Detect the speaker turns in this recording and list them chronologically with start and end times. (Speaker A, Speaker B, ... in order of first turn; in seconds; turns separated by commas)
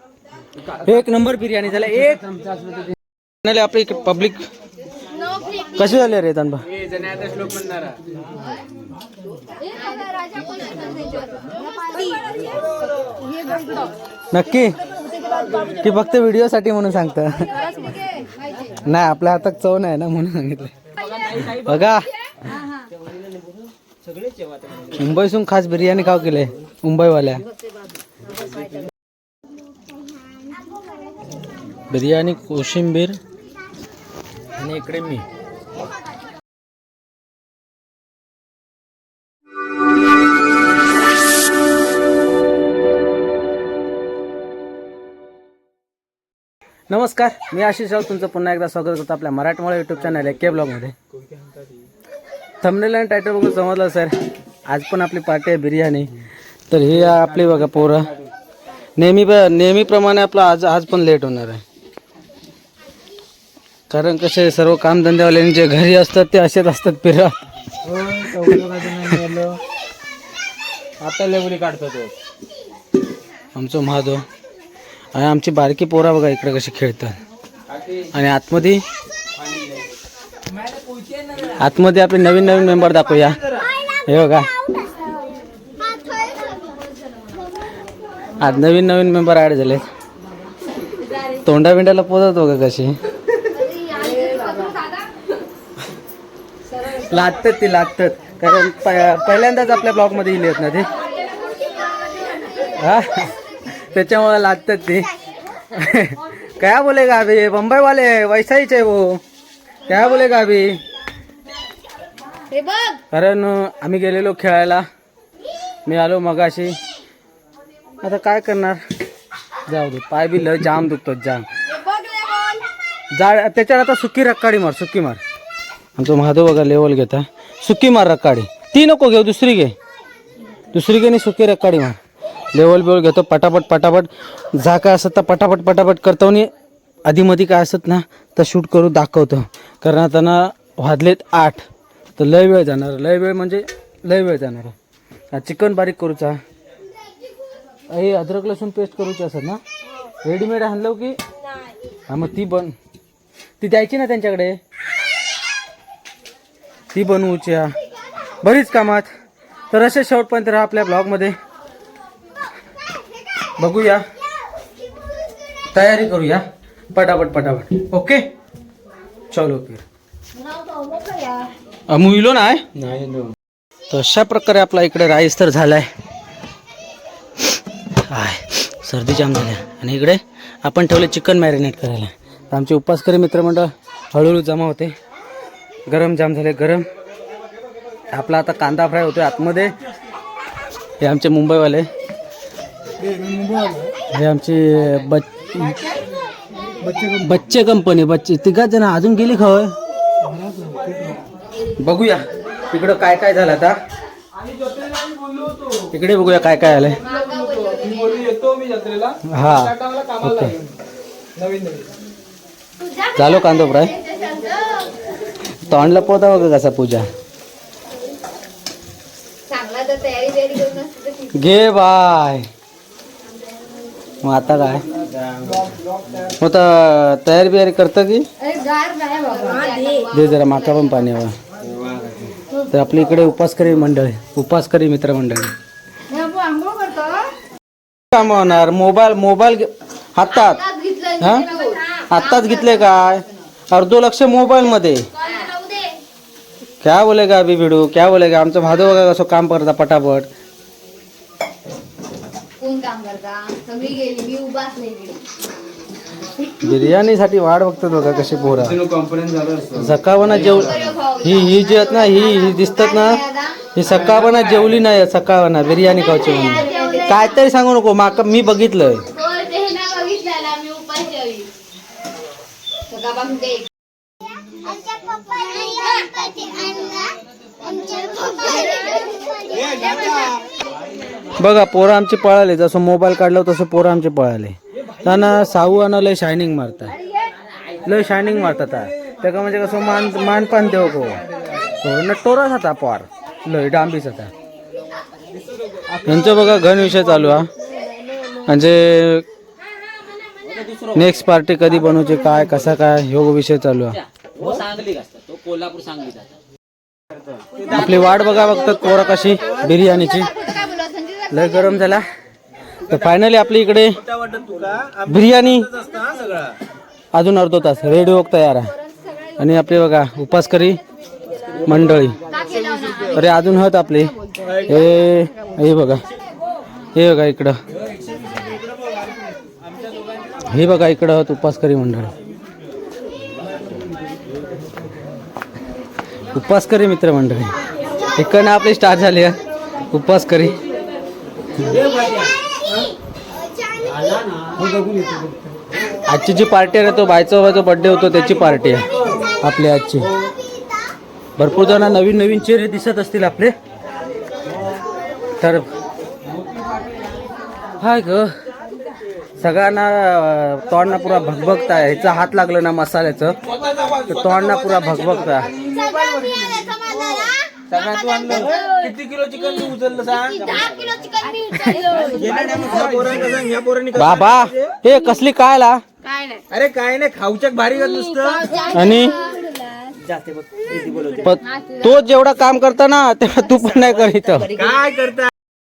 Speaker A: 0.7-2.3, Speaker A: 3.4-4.4, Speaker B: 5.1-5.7, Speaker A: 5.8-6.7, Speaker C: 6.7-8.0, Speaker B: 9.6-13.9, Speaker A: 14.3-14.8, Speaker B: 14.9-15.7, Speaker A: 15.6-17.6, Speaker B: 17.5-18.8, Speaker A: 18.8-20.7, Speaker C: 21.1-21.8, Speaker A: 21.3-22.1, Speaker A: 24.9-27.4, Speaker A: 31.9-33.2, Speaker A: 34.6-35.2, Speaker A: 46.9-50.9, Speaker A: 52.6-54.1, Speaker A: 54.7-56.1, Speaker A: 56.7-58.1, Speaker A: 59.0-61.6, Speaker A: 63.9-67.3, Speaker C: 67.8-69.6, Speaker C: 71.0-72.1, Speaker A: 73.5-74.2, Speaker A: 75.1-77.2, Speaker A: 78.0-78.8, Speaker A: 81.4-83.4, Speaker A: 83.9-84.5, Speaker B: 84.7-85.2, Speaker B: 85.8-86.9, Speaker A: 88.4-89.8, Speaker A: 91.4-92.9, Speaker B: 93.5-95.2, Speaker A: 96.8-100.9, Speaker B: 101.0-102.8, Speaker A: 102.7-105.1, Speaker A: 105.7-109.2, Speaker A: 109.9-110.8, Speaker B: 112.5-113.0, Speaker A: 113.1-114.8, Speaker A: 115.8-116.8, Speaker A: 118.0-118.8, Speaker A: 119.7-121.4, Speaker B: 121.7-122.7, Speaker A: 123.1-125.2, Speaker A: 126.0-129.7, Speaker A: 130.7-132.0, Speaker A: 132.5-136.5, Speaker A: 137.0-141.7, Speaker A: 142.2-144.7, Speaker A: 145.3-146.4, Speaker A: 147.9-149.6, Speaker A: 150.2-151.2, Speaker A: 152.1-152.7, Speaker A: 153.6-154.6, Speaker A: 156.9-157.7, Speaker A: 158.4-159.1, Speaker A: 159.7-161.3, Speaker A: 163.6-164.0, Speaker A: 165.7-168.3, Speaker A: 169.3-169.8, Speaker B: 170.4-171.5, Speaker A: 171.9-173.0, Speaker C: 172.8-173.3, Speaker A: 173.9-175.9, Speaker A: 178.1-184.9, Speaker A: 185.9-186.8, Speaker A: 188.1-189.7, Speaker A: 191.0-191.9, Speaker A: 194.1-196.0, Speaker A: 196.8-199.7, Speaker C: 200.6-201.1, Speaker A: 201.8-203.8, Speaker C: 204.8-205.7, Speaker A: 205.9-207.0, Speaker B: 207.0-208.5, Speaker C: 207.4-209.2, Speaker A: 209.2-210.6, Speaker C: 211.4-211.8, Speaker B: 212.8-215.0, Speaker A: 213.2-213.9, Speaker A: 215.6-217.1, Speaker B: 219.5-221.3, Speaker A: 221.3-222.4, Speaker A: 224.2-224.8, Speaker A: 226.4-228.3, Speaker B: 228.4-230.1, Speaker A: 230.1-231.4, Speaker A: 232.7-235.5, Speaker B: 236.1-237.3, Speaker A: 238.1-240.6, Speaker B: 240.4-242.6, Speaker A: 241.2-241.5, Speaker A: 242.1-245.1, Speaker B: 245.2-245.9, Speaker A: 246.8-250.3, Speaker B: 252.6-255.2, Speaker A: 256.6-258.8, Speaker C: 258.8-259.9, Speaker A: 259.7-269.1, Speaker B: 260.6-263.6, Speaker B: 266.1-267.2, Speaker B: 269.1-271.5, Speaker B: 272.9-273.7, Speaker B: 275.1-277.1, Speaker B: 277.8-280.4, Speaker A: 281.4-287.0, Speaker A: 287.8-291.2, Speaker A: 291.8-294.3, Speaker A: 296.0-297.5, Speaker A: 298.4-299.2, Speaker A: 300.9-304.0, Speaker C: 304.4-306.2, Speaker A: 307.7-310.4, Speaker B: 310.2-311.6, Speaker A: 311.3-312.1, Speaker A: 312.9-314.0, Speaker C: 314.1-315.0, Speaker A: 315.0-315.7, Speaker C: 315.8-316.5, Speaker A: 317.1-318.7, Speaker A: 319.4-320.8, Speaker A: 321.6-322.2, Speaker B: 322.3-323.1, Speaker A: 323.1-326.0, Speaker A: 326.9-327.6, Speaker A: 330.5-332.1, Speaker A: 336.3-337.5, Speaker A: 338.1-339.4, Speaker A: 339.9-340.6, Speaker A: 346.1-348.9, Speaker A: 349.4-350.1, Speaker A: 351.4-353.5, Speaker A: 355.4-355.7, Speaker A: 357.8-358.3, Speaker A: 359.4-363.4, Speaker C: 363.6-364.4, Speaker A: 364.1-365.5, Speaker C: 365.6-366.4, Speaker B: 365.6-367.3, Speaker C: 367.7-370.8, Speaker B: 368.0-368.9, Speaker B: 370.3-373.0, Speaker C: 372.0-374.4, Speaker A: 373.9-375.8, Speaker B: 376.1-376.4, Speaker C: 376.5-378.5, Speaker B: 378.0-380.0, Speaker A: 378.7-379.2, Speaker C: 380.3-381.2, Speaker A: 381.1-384.6, Speaker C: 384.5-385.3